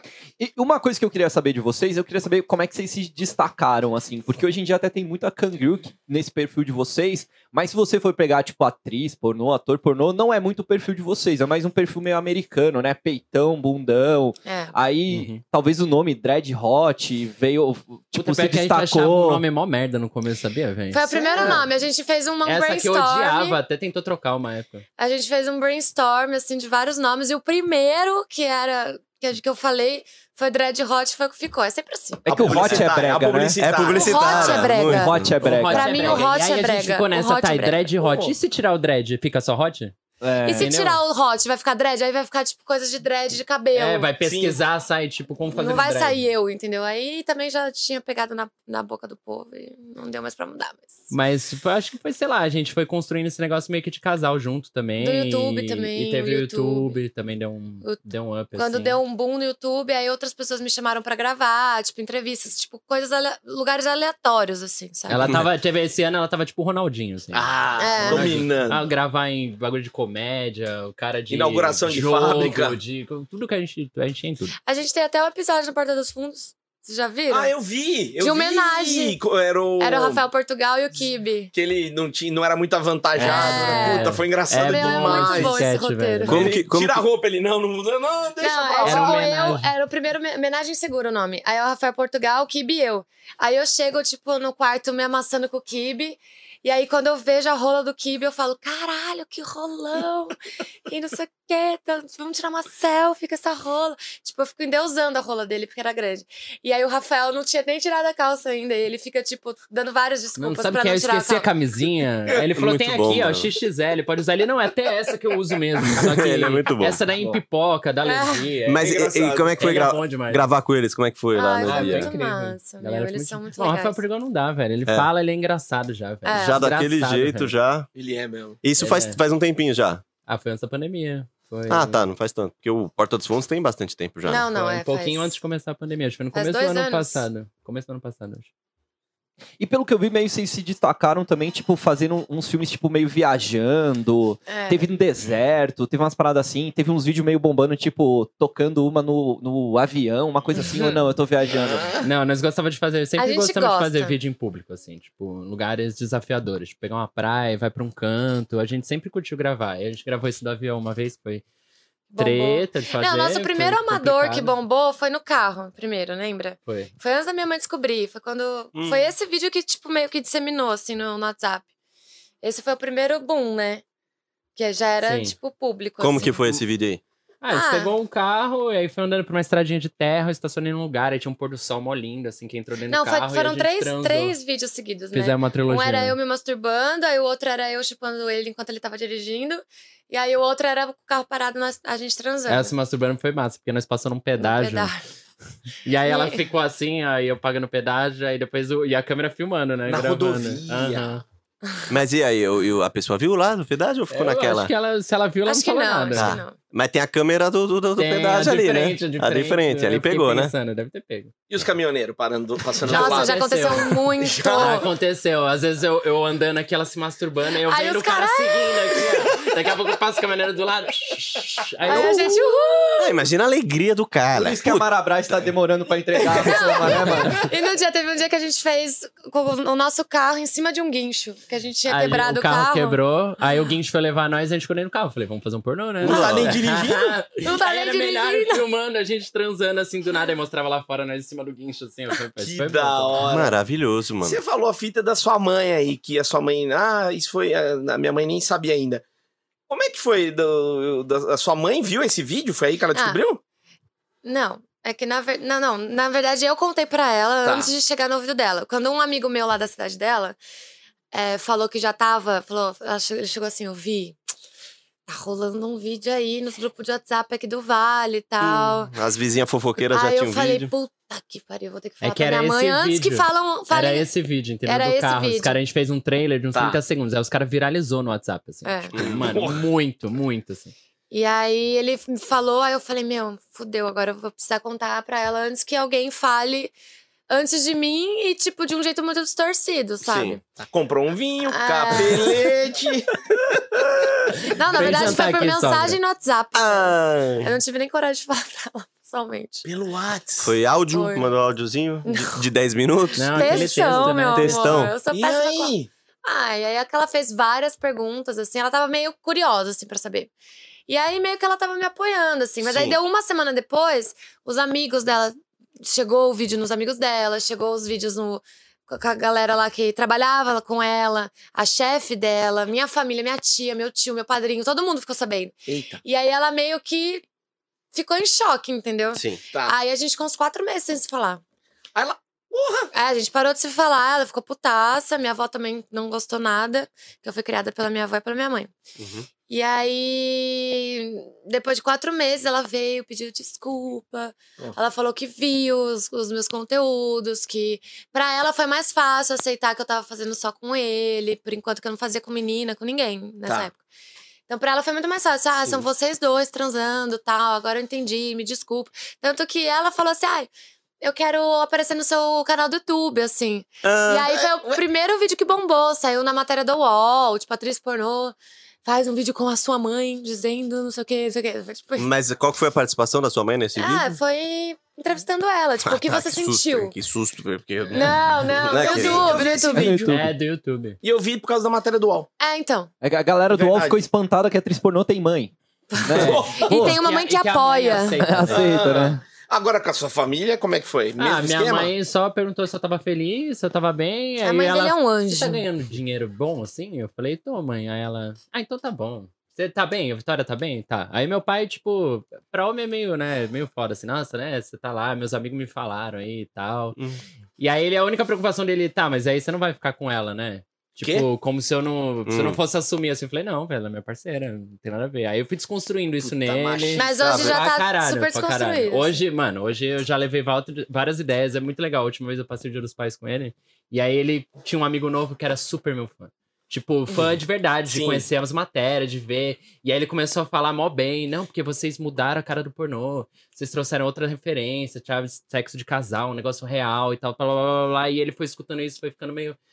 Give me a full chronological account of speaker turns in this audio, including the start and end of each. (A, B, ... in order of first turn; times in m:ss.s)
0:00.4-0:19.4 A
0:14.4-0:14.7 B
0:15.1-0:15.4 C
0:18.1-0:21.6 C
0:20.9-0:23.6 B
0:21.1-0:21.6 D
0:22.4-0:24.8 C
0:25.0-0:32.2 B
0:32.2-0:33.6 A
0:32.3-0:34.8 D
0:32.5-0:32.8 E
0:33.6-0:35.4 E
0:33.9-0:37.9 B
0:34.7-0:36.2 A
0:35.4-0:39.9 C
0:38.0-0:38.3 D
0:40.2-0:40.7 A
0:40.4-0:41.0 C
0:40.4-0:44.1 B
0:43.7-0:46.2 C
0:44.2-0:44.6 D
0:45.5-0:51.0 B
0:51.1-0:59.0 C
0:55.0-0:57.0 B
0:58.6-1:05.2 B
1:05.1-1:14.6 C
1:05.2-1:05.5 E
1:07.3-1:08.8 D
1:07.8-1:08.5 B
1:11.3-1:12.8 D
1:14.6-1:17.5 B
1:17.3-1:20.2 D
1:18.2-1:19.2 B
1:19.8-1:21.5 B
1:21.5-1:25.6 D
1:23.2-1:26.4 C
1:23.2-1:26.4 B
1:26.2-1:27.0 E
1:26.3-1:29.2 D
1:28.4-1:51.5 B
1:28.8-1:29.7 C
1:50.4-1:58.9 C
1:52.5-1:53.5 E
1:55.9-1:57.0 E
1:58.0-1:58.5 B
1:58.6-2:02.1 E
1:58.8-1:59.7 D
1:59.6-2:00.5 C
2:01.3-2:04.0 B
2:01.6-2:07.5 C
2:06.2-2:06.7 B
2:06.3-2:07.9 E
2:07.9-2:08.6 D
2:08.6-2:10.0 E
2:08.8-2:09.2 C
2:10.2-2:12.0 C
2:11.7-2:14.5 E
2:14.2-2:15.3 B
2:14.5-2:18.5 C
2:16.3-2:17.2 B
2:19.6-2:31.9 A
2:24.5-2:24.8 B
2:31.5-2:32.0 D
2:32.0-2:41.4 C
2:33.2-2:34.2 B
2:42.1-2:51.6 B
2:42.2-2:44.5 C
2:46.6-2:46.9 C
2:48.7-2:49.1 E
2:52.4-2:53.8 B
2:54.6-2:56.4 B
2:55.0-2:55.3 C
2:56.0-2:57.0 E
2:57.4-3:04.3 C
2:57.5-2:57.9 B
3:02.9-3:12.7 B
3:05.1-3:06.2 C
3:12.5-3:14.9 C
3:14.4-3:15.0 B
3:15.8-3:21.2 C
3:16.0-3:16.4 B
3:19.9-3:21.2 D
3:21.9-3:24.7 E
3:24.1-3:26.4 C
3:25.4-3:26.6 B
3:26.1-3:30.5 E
3:28.0-3:31.3 C
3:31.5-3:34.9 D
3:32.8-3:42.4 C
3:32.8-3:34.9 B
3:37.6-3:39.3 B
3:41.8-3:43.2 B
3:41.9-3:42.2 D
3:43.0-3:44.8 E
3:44.3-3:47.4 A
3:46.2-3:47.2 D
3:46.3-3:53.0 B
3:51.9-4:03.2 C
3:56.0-3:57.2 D
3:56.0-3:56.5 E
3:57.4-3:58.6 B
4:02.4-4:03.6 D
4:03.2-4:04.4 E
4:04.2-4:09.0 D
4:09.7-4:13.4 D
4:12.9-4:13.2 B
4:14.2-4:20.4 B
4:17.4-4:17.7 D
4:21.1-4:24.2 B
4:25.1-4:28.9 B
4:28.4-4:30.7 E
4:29.8-4:34.1 B
4:32.0-4:40.7 C
4:34.6-4:35.6 B
4:36.5-4:36.8 D
4:38.6-4:38.9 B
4:38.9-4:39.7 D
4:41.1-4:46.7 B
4:47.3-4:50.4 B
4:50.0-4:50.4 E
4:50.6-4:53.2 D
4:51.5-4:52.4 B
4:54.4-4:59.7 B
4:54.7-4:56.0 C
4:56.5-4:57.5 E
4:59.6-5:00.5 D
5:00.4-5:05.0 E
5:00.9-5:01.3 B
5:02.0-5:02.4 B
5:03.2-5:04.9 C
5:03.2-5:10.3 B
5:05.1-5:05.9 D
5:10.9-5:27.2 B
5:12.6-5:13.0 E
5:25.7-5:26.0 D
5:27.9-5:31.4 B
5:29.1-5:29.4 E
5:31.9-5:32.9 D
5:32.9-5:38.7 B
5:39.0-5:39.3 E
5:39.5-5:53.8 B
5:54.5-6:00.5 B
6:01.0-6:12.1 B
6:03.8-6:04.4 E
6:12.0-6:14.2 E
6:13.8-6:16.9 B
6:15.8-6:19.5 E
6:17.9-6:20.0 B
6:18.6-6:20.1 D
6:19.7-6:20.3 A
6:20.1-6:21.0 C
6:21.0-6:22.3 D
6:22.4-6:22.9 B
6:23.0-6:27.0 A
6:23.5-6:24.0 D
6:25.9-6:28.4 B
6:26.1-6:26.7 D
6:26.5-6:28.8 C
6:28.2-6:29.2 A
6:28.5-6:31.9 D
6:31.2-6:47.0 C
6:34.4-6:35.6 B
6:47.0-6:47.2 E
6:47.6-7:19.6 C
6:51.0-6:51.3 D
6:52.2-6:52.6 E
6:56.2-6:57.1 D
6:57.0-6:59.2 B
6:57.1-6:57.6 E
7:07.8-7:08.3 D